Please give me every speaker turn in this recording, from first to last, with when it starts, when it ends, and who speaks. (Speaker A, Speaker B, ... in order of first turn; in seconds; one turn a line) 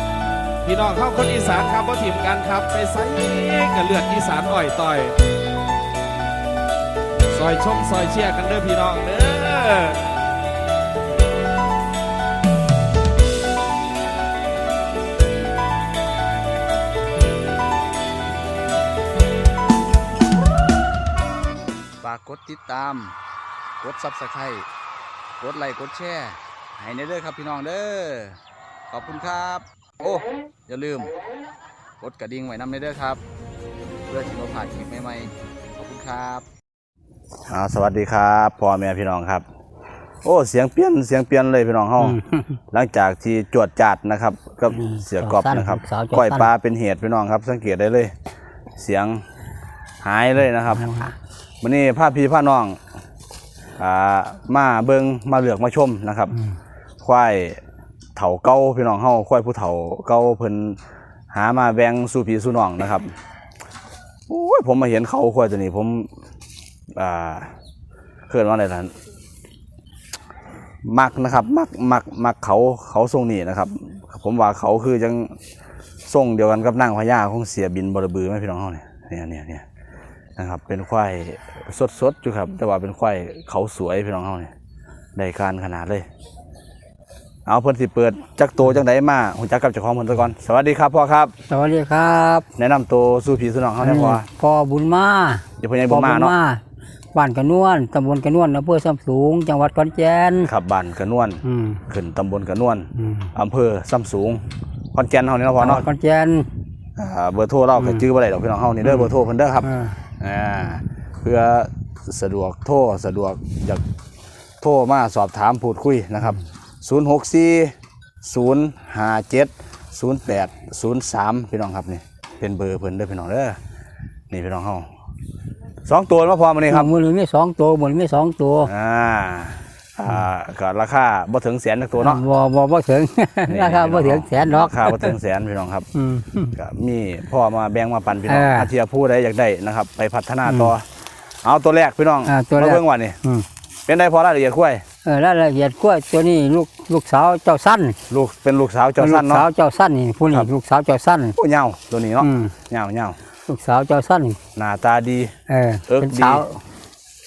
Speaker A: 0.6-5.2
Speaker A: 7.3-10.0
Speaker B: 22.0-23.1
Speaker B: 23.8-24.6
Speaker B: 25.4-28.4
Speaker B: 28.9-31.1
Speaker B: 32.0-33.2
Speaker B: 34.1-36.4
Speaker B: 37.5-39.4
Speaker B: 40.2-42.2
Speaker C: 42.0-42.5
Speaker B: 42.7-48.1
Speaker C: 44.7-46.5
Speaker B: 48.8-49.2
Speaker B: 50.0-50.8
Speaker C: 50.7-51.1
Speaker B: 51.6-52.8
Speaker B: 53.8-56.3
Speaker B: 57.0-57.6
Speaker B: 58.1-60.8
Speaker B: 61.3-63.1
Speaker B: 64.3-66.1
Speaker B: 66.9-67.5
Speaker B: 68.3-68.9
Speaker B: 70.8-75.3
Speaker B: 76.1-79.6
Speaker B: 80.4-84.5
Speaker B: 85.2-86.0
Speaker B: 87.5-91.3
Speaker C: 91.5-92.5
Speaker B: 92.6-94.2
Speaker C: 93.8-96.6
Speaker B: 95.6-96.3
Speaker C: 97.1-100.5
Speaker B: 100.4-104.4
Speaker C: 101.4-101.8
Speaker C: 103.0-103.3
Speaker B: 104.9-105.8
Speaker C: 105.6-106.5
Speaker B: 107.0-113.8
Speaker C: 108.8-109.9
Speaker B: 114.6-123.6
Speaker B: 124.3-124.9
Speaker B: 125.8-126.9
Speaker C: 126.7-128.7
Speaker B: 128.7-132.2
Speaker C: 132.0-135.2
Speaker B: 133.5-135.9
Speaker C: 135.9-136.5
Speaker B: 136.5-140.8
Speaker C: 138.3-138.7
Speaker C: 140.4-140.7
Speaker B: 141.4-143.2
Speaker C: 142.2-143.4
Speaker B: 143.8-144.8
Speaker C: 145.0-148.0
Speaker B: 148.1-149.4
Speaker C: 149.0-151.4
Speaker B: 151.3-153.2
Speaker C: 152.2-152.6
Speaker C: 153.5-154.4
Speaker B: 154.5-155.3
Speaker C: 155.5-156.6
Speaker B: 155.9-156.4